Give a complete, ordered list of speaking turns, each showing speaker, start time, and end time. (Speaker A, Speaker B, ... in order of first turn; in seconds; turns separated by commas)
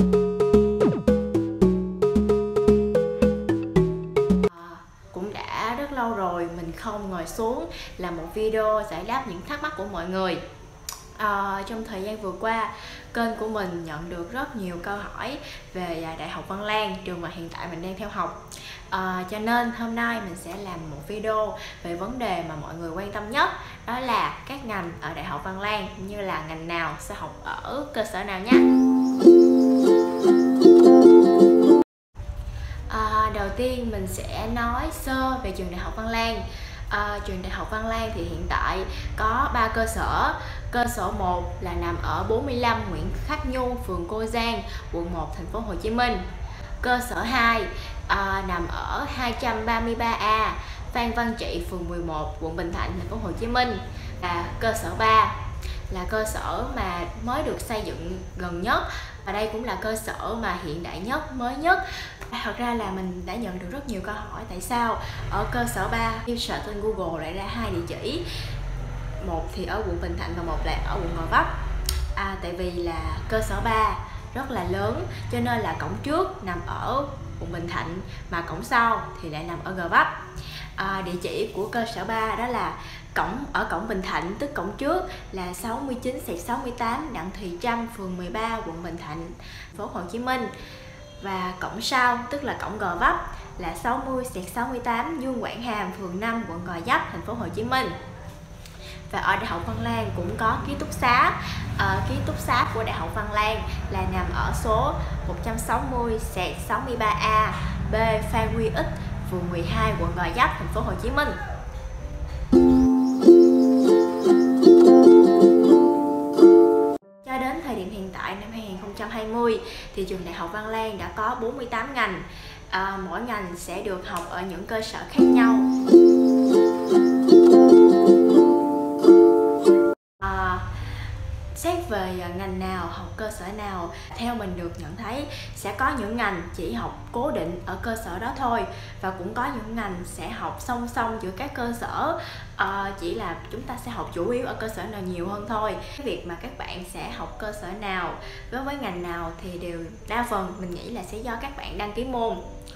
Speaker A: 4.5-10.4, Speaker A: 11.2-28.7, Speaker A: 32.9-46.2, Speaker A: 46.8-55.4, Speaker A: 55.9-68.2, Speaker A: 69.2-71.5, Speaker A: 72.1-80.1, Speaker A: 80.8-90.5, Speaker A: 91.2-98.0, Speaker A: 99.1-111.4, Speaker A: 117.2-125.7, Speaker A: 130.2-130.7, Speaker A: 131.5-152.4